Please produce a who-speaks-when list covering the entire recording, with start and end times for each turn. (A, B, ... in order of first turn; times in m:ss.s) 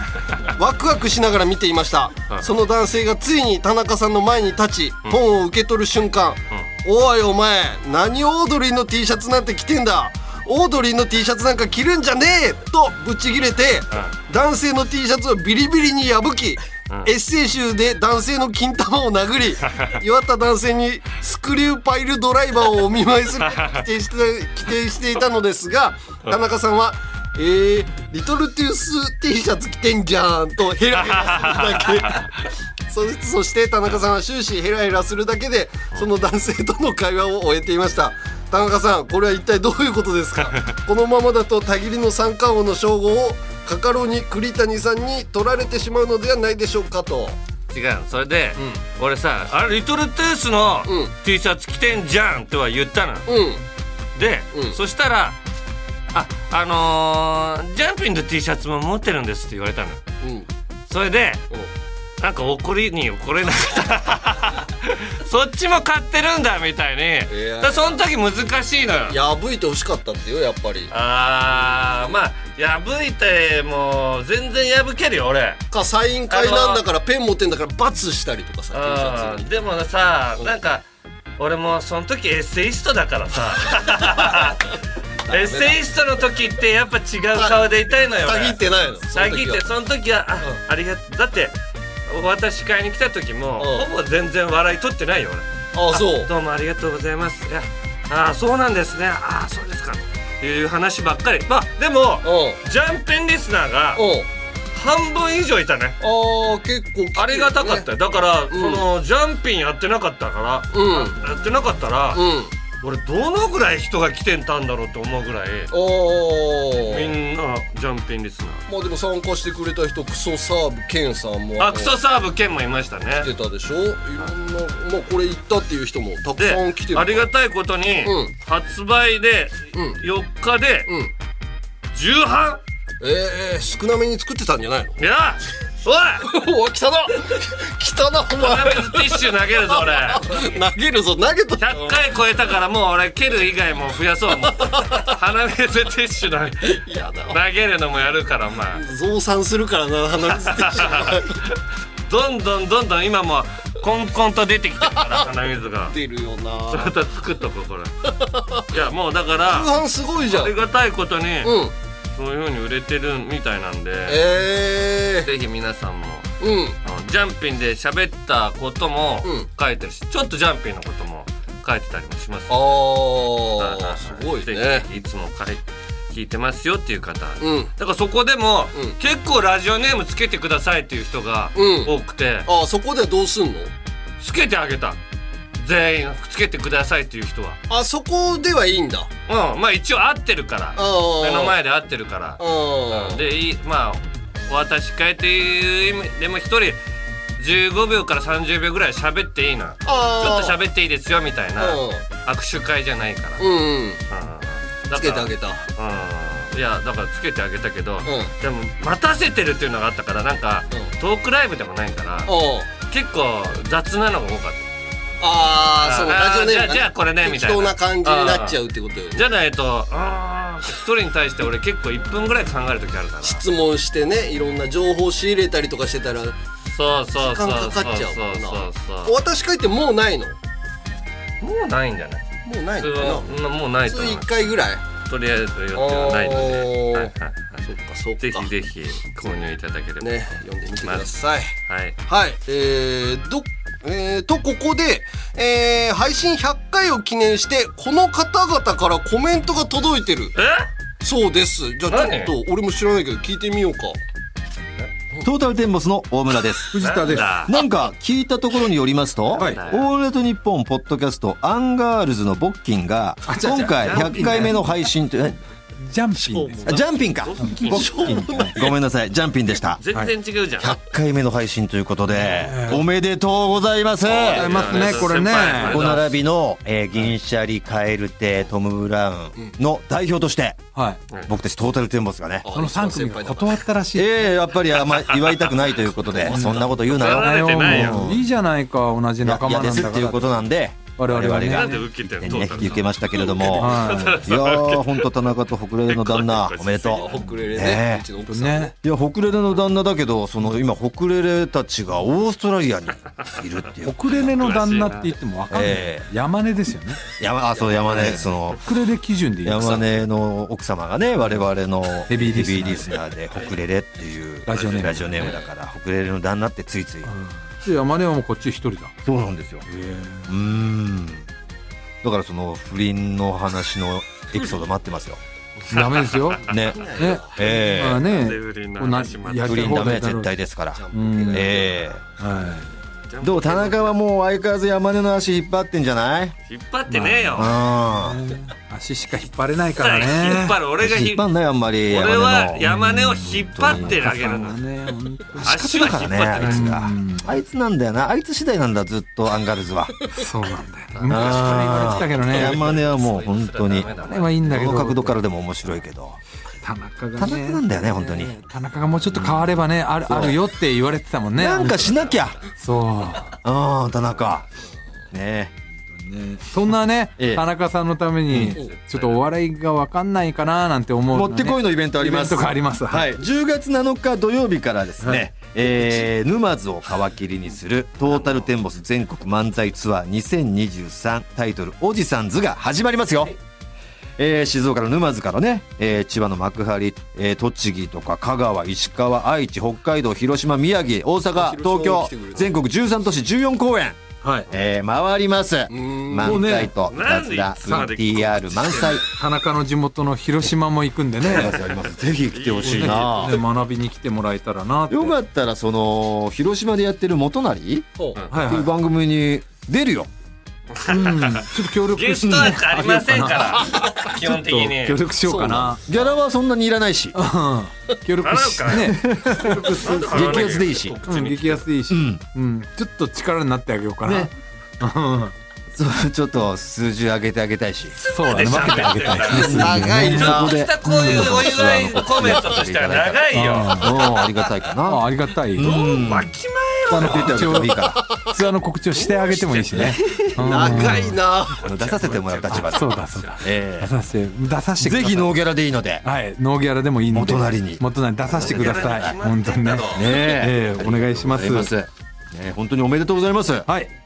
0:00.6-0:32.2 A
0:23.4-0:23.8 B
0:31.0-0:32.5 B
0:32.9-0:47.4 A
0:40.4-0:40.8 B
0:47.7-0:53.3 B
0:48.6-0:48.8 A
0:50.9-0:51.1 A
0:53.3-0:53.6 A
0:54.2-0:55.4 B
0:56.1-1:00.0 B
1:00.2-1:00.5 A
1:00.9-1:01.4 B
1:02.2-1:09.2 B
1:07.3-1:08.0 A
1:09.1-1:10.9 A
1:10.9-1:15.6 B
1:15.7-1:19.5 A
1:16.3-1:16.8 B
1:18.7-1:20.8 B
1:21.4-1:24.7 B
1:23.9-1:24.4 A
1:25.3-1:28.6 B
1:25.3-1:25.8 A
1:27.4-1:29.6 A
1:29.1-1:44.0 B
1:33.6-1:33.9 A
1:35.7-1:36.3 A
1:42.2-1:42.6 A
1:44.0-1:44.3 A
1:44.7-1:46.0 B
1:46.0-1:47.9 A
1:47.2-1:52.2 B
1:48.5-1:48.9 A
1:50.7-1:51.2 A
1:52.1-1:52.5 A
1:52.8-1:55.7 B
1:55.7-1:57.1 A
1:56.9-1:58.6 B
1:58.7-2:02.0 A
2:01.6-2:03.3 B
2:03.2-2:07.3 A
2:06.4-2:10.9 B
2:08.0-2:08.3 A
2:09.7-2:10.0 A
2:10.9-2:11.1 A
2:11.9-2:12.6 B
2:13.0-2:15.0 A
2:15.0-2:16.3 B
2:16.2-2:22.0 A
2:18.4-2:20.4 B
2:21.6-2:26.8 B
2:24.5-2:25.1 A
2:26.6-2:27.4 A
2:27.3-2:28.8 B
2:28.7-2:31.4 A
2:30.3-2:31.6 B
2:32.1-2:36.0 B
2:35.0-2:35.2 A
2:35.9-2:37.0 A
2:36.7-2:38.0 B
2:38.0-2:38.6 A
2:38.7-2:39.7 B
2:39.5-2:40.5 A
2:40.3-2:41.6 B
2:41.4-2:41.7 A
2:42.2-2:44.2 B
2:44.1-2:45.3 A
2:45.2-2:52.6 B
2:46.4-2:46.8 A
2:52.5-2:54.9 A
2:53.6-3:02.5 B
2:57.4-2:57.7 A
3:01.6-3:01.9 A
3:02.4-3:03.7 A
3:04.2-3:05.0 B
3:05.6-3:07.6 B
3:07.7-3:09.1 A
3:09.3-3:16.8 B
3:10.8-3:11.6 A
3:12.4-3:13.2 A
3:17.4-3:23.5 B
3:19.8-3:20.6 A
3:21.6-3:22.0 A
3:23.4-3:24.0 A
3:24.1-3:34.7 B
3:24.9-3:25.6 A
3:28.0-3:28.3 A
3:32.3-3:32.7 A
3:35.2-3:39.2 A
3:35.8-3:38.6 B
3:39.1-3:43.4 B
3:43.2-3:46.4 A
3:46.7-3:49.1 B
3:47.2-3:50.4 A
3:51.4-3:52.2 B
3:52.4-3:53.3 A
3:52.8-3:54.3 B
3:53.9-3:54.8 A
3:55.0-3:57.6 B
3:55.8-3:57.1 A
3:57.6-3:58.5 A
3:58.2-4:00.3 B
4:00.0-4:01.5 A
4:00.8-4:02.0 B
4:02.1-4:10.3 A
4:10.4-4:10.7 B
4:11.0-4:14.0 A
4:11.9-4:12.3 B
4:15.2-4:25.4 C
4:16.7-4:17.4 D
4:16.8-4:17.6 B
4:19.4-4:19.7 D
4:19.4-4:19.9 B
4:23.2-4:24.7 D
4:23.8-4:24.5 B
4:25.9-4:26.8 D
4:26.2-4:26.9 A
4:26.7-4:29.8 C
4:27.2-4:28.2 B
4:27.4-4:28.6 D
4:27.6-4:28.7 A
4:29.8-4:30.8 B
4:30.6-4:40.7 C
4:32.1-4:32.8 D
4:34.0-4:36.2 B
4:34.3-4:36.0 D
4:40.8-4:41.0 D
4:41.2-4:42.5 C
4:42.4-4:43.6 A
4:42.5-4:44.3 D
4:44.0-4:48.3 C
4:45.0-4:48.0 B
4:46.2-4:54.3 D
4:49.2-4:57.0 C
4:51.5-4:55.1 B
4:55.9-4:57.2 B
4:56.9-4:58.7 A
4:57.6-4:58.1 C
4:58.3-4:58.7 D
4:58.8-5:04.3 C
5:03.8-5:07.2 D
5:04.2-5:05.1 B
5:05.5-5:06.1 C
5:07.2-5:08.6 C
5:07.8-5:10.0 D
5:09.4-5:17.1 C
5:11.2-5:11.5 D
5:12.1-5:13.0 D
5:14.5-5:15.4 D
5:14.5-5:15.4 B
5:17.1-5:18.9 D
5:19.0-5:19.7 C
5:19.7-5:20.3 D
5:20.3-5:21.3 C
5:22.0-5:25.2 C
5:25.7-5:29.9 B
5:25.7-5:30.4 D
5:26.5-5:28.1 C
5:26.7-5:27.4 A
5:29.4-5:32.0 C
5:30.7-5:32.1 A
5:30.9-5:31.6 D
5:32.2-5:32.7 D
5:33.1-5:34.0 B
5:33.2-5:36.4 C
5:36.5-5:37.6 B
5:36.9-5:40.6 D
5:37.4-5:38.2 C
5:39.8-5:41.3 B
5:40.8-5:44.4 C
5:41.9-5:44.6 B
5:42.6-5:47.4 D
5:45.4-5:50.0 C
5:45.4-5:46.8 B
5:50.1-5:52.7 D
5:50.9-5:54.4 B
5:51.1-5:56.2 C
5:54.0-5:55.2 D
5:56.6-6:03.4 D
5:57.2-5:58.4 C
5:59.1-5:59.6 C
6:00.1-6:00.4 C
6:01.4-6:02.4 C
6:01.7-6:02.5 B
6:03.4-6:04.5 C
6:05.1-6:05.6 C
6:05.9-6:13.2 D
6:07.2-6:07.4 C
6:08.3-6:08.6 C
6:08.6-6:09.2 B
6:11.1-6:23.4 C
6:18.0-6:18.5 B
6:24.2-6:39.1 C
6:31.3-6:32.6 A
6:34.2-6:34.5 D
6:35.7-6:36.5 A
6:36.2-6:36.7 D
6:36.9-6:39.0 B
6:39.0-6:41.6 D
6:41.2-6:43.4 C
6:42.3-6:43.4 B
6:42.6-6:45.2 D
6:44.9-6:50.1 C
6:48.0-6:48.2 A
6:48.3-6:48.7 D
6:50.8-6:55.0 B
6:50.9-6:55.8 D
6:52.3-6:52.6 C
6:55.2-6:55.8 A
6:55.9-6:57.2 C
6:57.1-7:05.3 D
6:58.2-6:59.0 B
6:58.8-7:01.0 C
6:59.6-7:01.7 B
7:01.9-7:02.2 C
7:04.0-7:04.3 C
7:05.7-7:08.0 C
7:08.0-7:13.8 B
7:08.0-7:11.6 D
7:09.3-7:16.3 C
7:09.5-7:10.5 A
7:13.3-7:14.3 D
7:14.8-7:15.9 D
7:15.6-7:17.7 B
7:16.9-7:21.2 D
7:16.9-7:18.0 C
7:18.1-7:18.4 A
7:19.3-7:20.8 B
7:20.4-7:21.6 A
7:21.5-7:23.5 B
7:21.6-7:23.9 C
7:22.5-7:25.3 D
7:24.8-7:26.0 C
7:26.0-7:31.7 D
7:27.1-7:29.1 C
7:28.4-7:30.1 B
7:29.9-7:33.7 C
7:33.7-7:33.9 D